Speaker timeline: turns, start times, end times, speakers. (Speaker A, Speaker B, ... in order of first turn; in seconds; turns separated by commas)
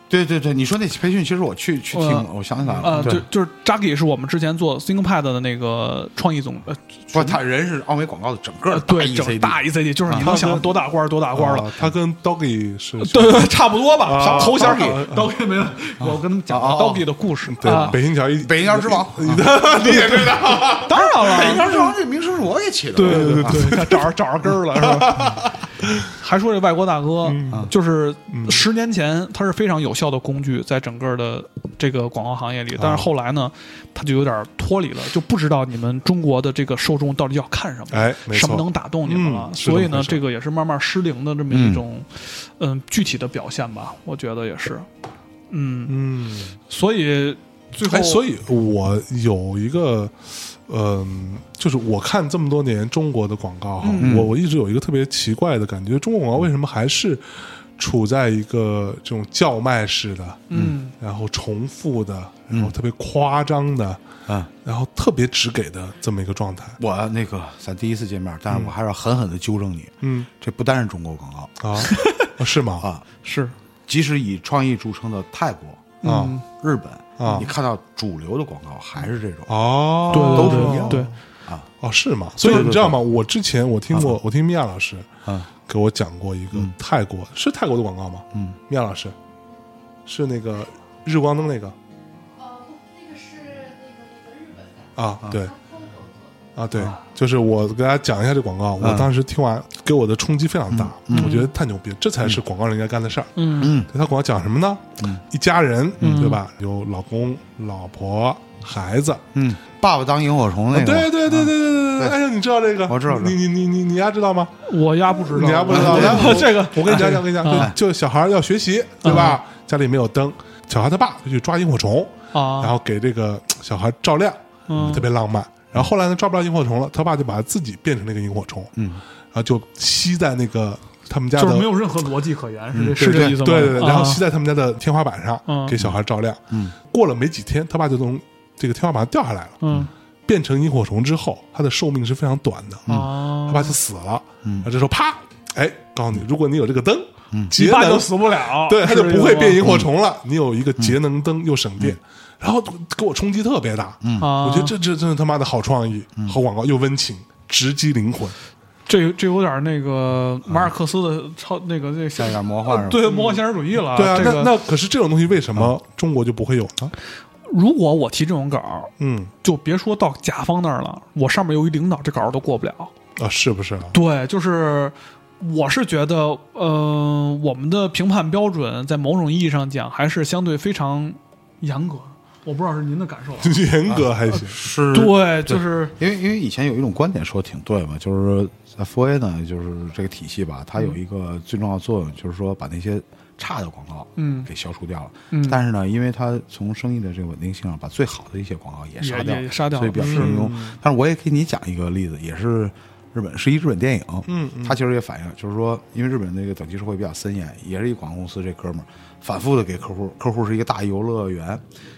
Speaker A: 0.1-3.2, Speaker B: 1.9-2.3, Speaker C: 2.7-3.2, Speaker B: 2.8-7.4, Speaker A: 7.1-10.4, Speaker B: 8.7-11.7, Speaker C: 10.2-10.7, Speaker C: 11.3-15.3, Speaker B: 13.0-17.9, Speaker A: 14.2-15.0, Speaker A: 16.0-17.1, Speaker C: 17.5-21.1, Speaker A: 17.6-23.7, Speaker B: 20.8-21.9, Speaker B: 22.9-25.3, Speaker C: 23.0-26.1, Speaker B: 26.1-44.9, Speaker C: 27.2-27.7, Speaker C: 28.3-28.6, Speaker C: 32.8-33.1, Speaker C: 37.9-40.2, Speaker A: 41.5-41.8, Speaker B: 45.5-46.0, Speaker C: 45.9-46.6, Speaker B: 46.7-48.3, Speaker C: 47.9-57.2, Speaker B: 53.8-54.2, Speaker A: 54.0-54.3, Speaker C: 57.8-60.5, Speaker B: 60.5-60.9, Speaker C: 61.0-64.0, Speaker A: 62.5-62.8, Speaker C: 64.6-66.8, Speaker A: 66.8-71.9, Speaker C: 70.0-70.3, Speaker C: 71.6-72.9, Speaker B: 71.8-72.3, Speaker A: 72.8-73.0, Speaker B: 73.2-73.5, Speaker A: 73.9-76.0, Speaker B: 76.0-76.4, Speaker C: 76.0-76.4, Speaker A: 76.5-81.7, Speaker C: 77.2-77.5, Speaker C: 79.5-81.2, Speaker B: 80.1-81.1, Speaker C: 81.8-85.1, Speaker A: 82.4-83.0, Speaker C: 85.7-89.2, Speaker C: 90.1-91.8, Speaker D: 92.4-96.5, Speaker C: 95.0-95.5, Speaker C: 96.6-109.2, Speaker A: 98.8-99.1, Speaker A: 100.7-101.4, Speaker B: 101.1-101.5, Speaker B: 103.4-103.8, Speaker A: 103.6-103.9, Speaker A: 106.0-106.3, Speaker B: 106.0-106.4, Speaker A: 109.3-112.2, Speaker C: 110.7-114.5, Speaker A: 112.9-113.4, Speaker B: 114.7-117.7, Speaker C: 115.3-128.7, Speaker A: 115.7-116.5, Speaker A: 117.5-117.8, Speaker B: 119.0-119.4, Speaker B: 122.3-122.8, Speaker B: 124.7-125.1, Speaker A: 128.8-129.0, Speaker C: 129.3-131.7, Speaker B: 131.4-134.2, Speaker A: 132.7-133.4, Speaker C: 133.0-139.6, Speaker B: 135.5-135.8, Speaker A: 136.5-136.8, Speaker B: 139.6-139.9, Speaker C: 140.3-158.4, Speaker B: 142.9-143.8, Speaker A: 144.4-144.7, Speaker B: 147.5-149.7, Speaker A: 154.0-154.3, Speaker B: 154.2-154.8, Speaker B: 158.9-164.6, Speaker A: 162.2-163.3, Speaker C: 163.9-166.9, Speaker B: 167.5-172.9, Speaker C: 169.0-169.3, Speaker C: 173.2-174.0, Speaker B: 173.9-183.6, Speaker C: 183.4-184.6, Speaker A: 183.9-211.6, Speaker B: 184.9-186.0, Speaker B: 194.2-194.5, Speaker B: 195.3-195.6, Speaker B: 199.0-200.4, Speaker C: 200.0-200.8, Speaker C: 204.3-204.8